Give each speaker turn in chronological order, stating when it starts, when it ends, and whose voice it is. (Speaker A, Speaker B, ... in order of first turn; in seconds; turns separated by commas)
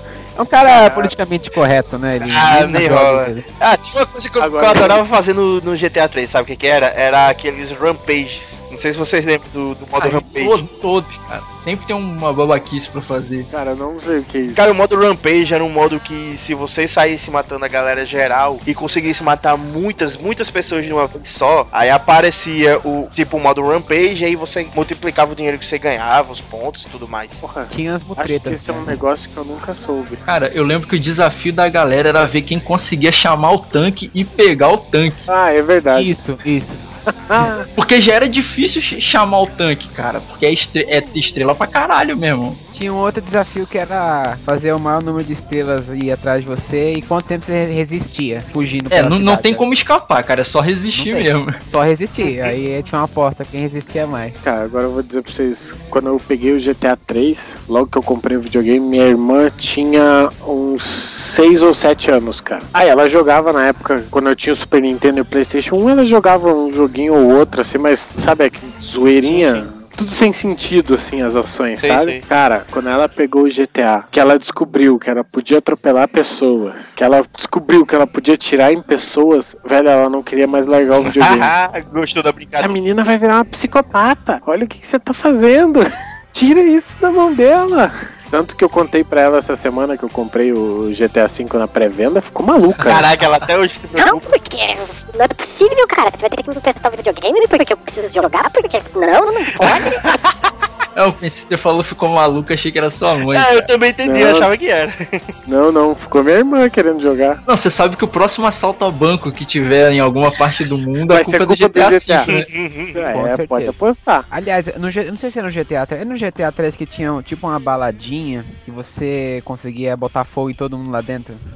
Speaker A: 0.4-3.5, Speaker B: 2.2-10.6, Speaker C: 4.4-5.0, Speaker D: 10.0-13.5, Speaker C: 13.5-14.6, Speaker B: 14.5-27.4, Speaker C: 27.4-30.2, Speaker A: 27.7-28.9, Speaker D: 30.3-35.3, Speaker C: 35.3-36.1, Speaker A: 35.9-36.9, Speaker C: 37.3-37.7, Speaker D: 37.8-42.6, Speaker A: 42.7-49.7, Speaker D: 48.9-51.6, Speaker A: 50.9-54.4, Speaker C: 54.4-81.5, Speaker B: 69.2-69.7, Speaker B: 71.8-72.2, Speaker B: 81.0-82.8, Speaker C: 82.6-93.1, Speaker B: 92.8-94.4, Speaker E: 94.0-100.0, Speaker B: 99.6-100.3, Speaker D: 101.0-103.7, Speaker B: 103.3-105.3, Speaker C: 104.1-104.5, Speaker C: 105.5-107.4, Speaker D: 107.5-112.5, Speaker C: 111.1-112.3, Speaker B: 112.3-113.0, Speaker C: 113.0-114.3, Speaker A: 113.1-113.8, Speaker A: 114.3-121.4